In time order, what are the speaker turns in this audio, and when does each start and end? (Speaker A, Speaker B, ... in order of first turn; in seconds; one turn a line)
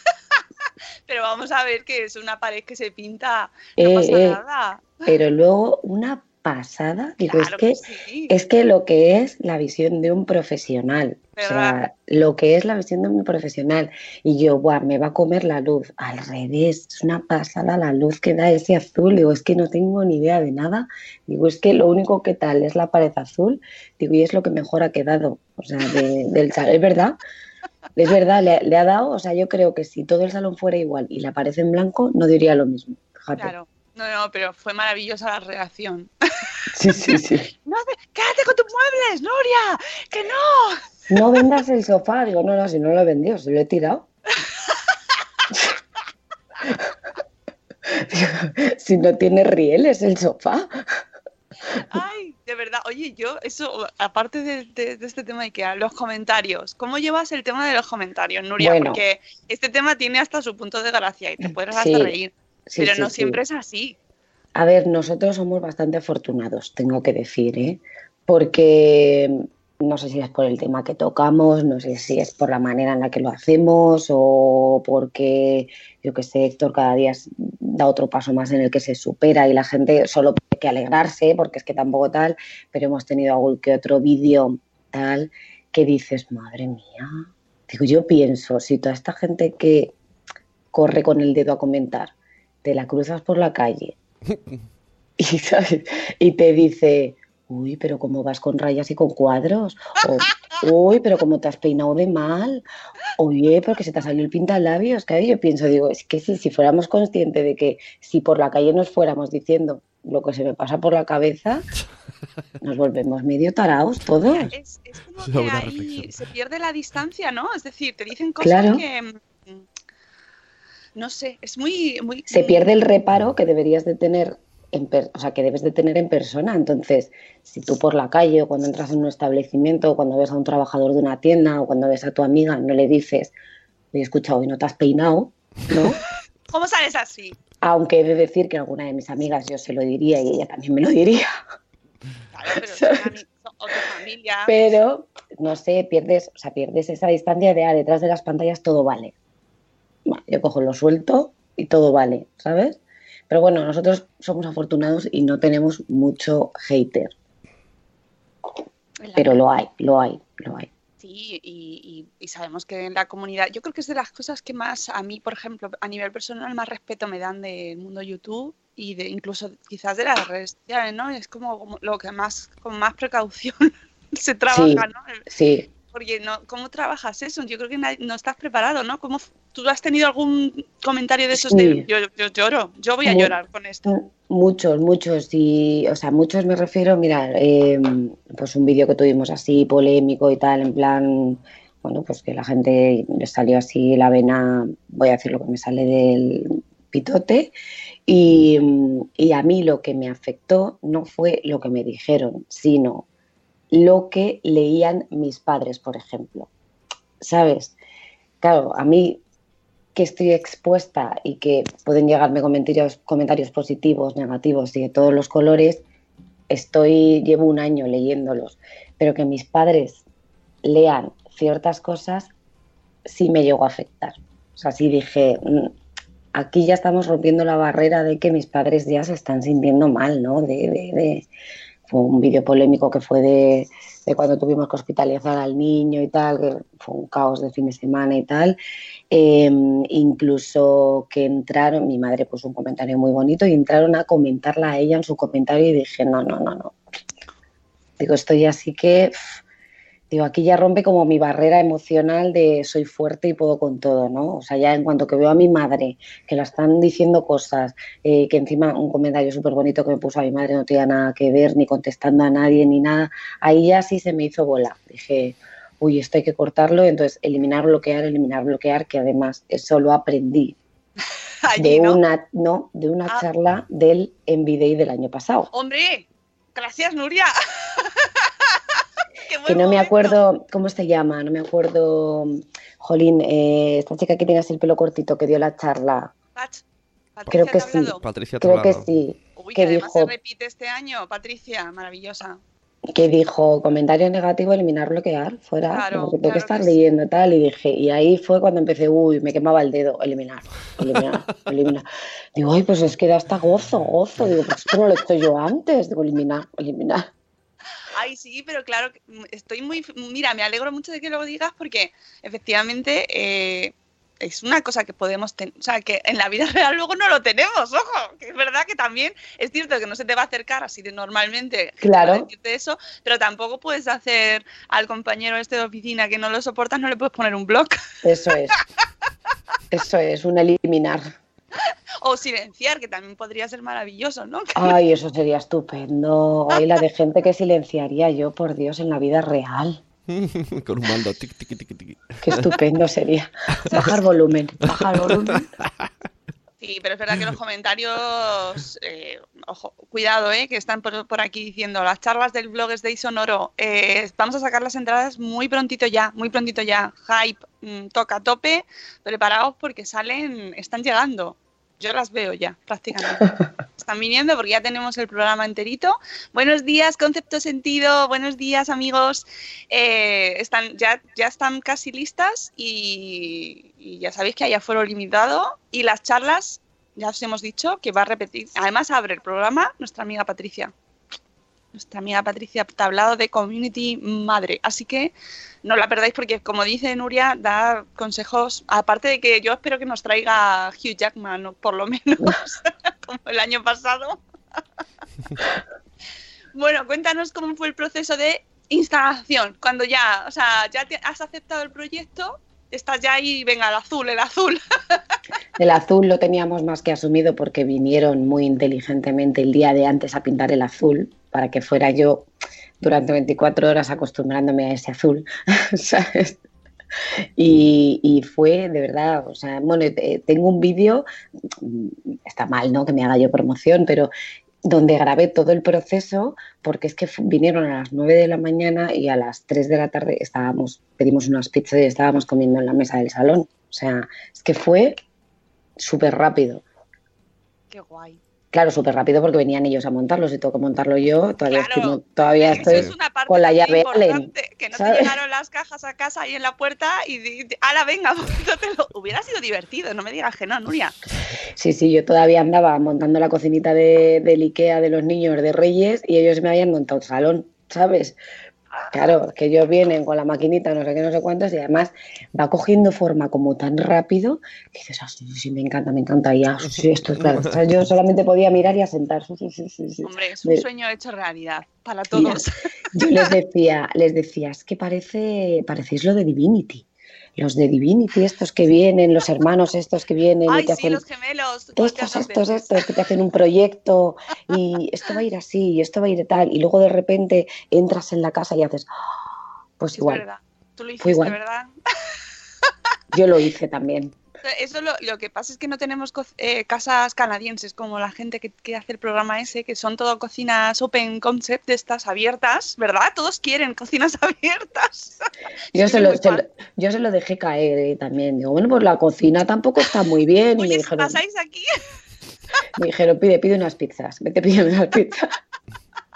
Speaker A: 1.1-5.0
Speaker B: 3.8-4.4
Speaker B: 5.0-27.2
Speaker A: 7.3-8.3
Speaker A: 11.3-11.8
Speaker B: 28.0-33.5
Speaker A: 33.4-36.1
Speaker B: 36.7-37.5
Speaker A: 37.7-40.8
Speaker B: 41.1-44.1
Speaker B: 47.9-50.7
Speaker A: 51.9-64.0
Speaker B: 58.6-59.0
Speaker B: 61.7-62.1
Speaker B: 62.7-63.4
Speaker B: 64.5-89.9
Speaker B: 90.7-94.0
Speaker B: 95.2-102.6
Speaker B: 103.2-111.7
Speaker B: 112.6-114.5
Speaker A: 114.5-119.6
Speaker C: 115.2-116.1
Speaker B: 118.4-118.8
Speaker A: 120.9-122.7
Speaker B: 122.3-133.3
Speaker B: 133.9-136.0
Speaker A: 136.5-137.4
Speaker B: 137.6-141.3
Speaker A: 142.3-144.5
Speaker B: 142.5-143.1
Speaker B: 144.4-149.1
Speaker B: 150.1-157.1
Speaker A: 159.0-159.3
Speaker B: 159.2-160.7
Speaker A: 161.0-175.2
Speaker B: 174.5-175.7
Speaker A: 175.9-183.9
Speaker B: 181.3-181.8
Speaker B: 183.0-183.3
Speaker B: 183.9-197.5
Speaker B: 198.1-203.1
Speaker B: 203.7-206.5
Speaker B: 207.2-207.7
Speaker B: 208.4-209.2
Speaker B: 209.9-215.8
Speaker B: 216.5-220.0
Speaker B: 220.6-222.3
Speaker B: 223.1-225.7
Speaker B: 226.3-231.3
Speaker B: 231.9-238.6
Speaker B: 239.1-246.7
Speaker B: 248.0-249.1
Speaker B: 250.1-270.6
Speaker A: 271.5-272.0
Speaker B: 271.6-275.5
Speaker A: 275.5-278.1
Speaker A: 279.3-280.2
Speaker B: 279.4-286.1
Speaker A: 286.4-286.6
Speaker A: 287.1-288.0
Speaker B: 287.3-290.1
Speaker C: 288.0-288.9
Speaker A: 289.4-292.4
Speaker B: 292.9-307.1
Speaker A: 295.7-296.8
Speaker A: 307.9-327.8
Speaker B: 321.8-322.3
Speaker B: 328.0-328.6
Speaker B: 329.7-331.0
Speaker A: 332.0-334.7
Speaker B: 334.6-339.8
Speaker C: 340.1-342.5
Speaker B: 342.2-345.5
Speaker C: 344.8-345.9
Speaker A: 346.6-380.7
Speaker A: 381.7-394.2
Speaker A: 396.5-405.0
Speaker B: 405.6-412.3
Speaker B: 412.8-416.4
Speaker B: 417.4-424.1
Speaker B: 424.6-435.0
Speaker B: 435.8-436.6
Speaker A: 437.7-438.2
Speaker B: 438.5-445.1
Speaker A: 441.5-450.9
Speaker C: 442.5-442.9
Speaker B: 451.6-458.2
Speaker B: 458.9-470.6
Speaker A: 470.0-472.5
Speaker B: 472.1-472.4
Speaker B: 472.9-481.0
Speaker A: 480.5-482.8
Speaker B: 481.8-488.9
Speaker B: 489.8-490.2
Speaker A: 490.0-491.7
Speaker B: 491.0-491.4
Speaker B: 493.1-494.1
Speaker A: 494.4-505.1
Speaker A: 505.7-506.4
Speaker B: 505.7-511.2
Speaker A: 510.6-511.7
Speaker B: 512.7-515.2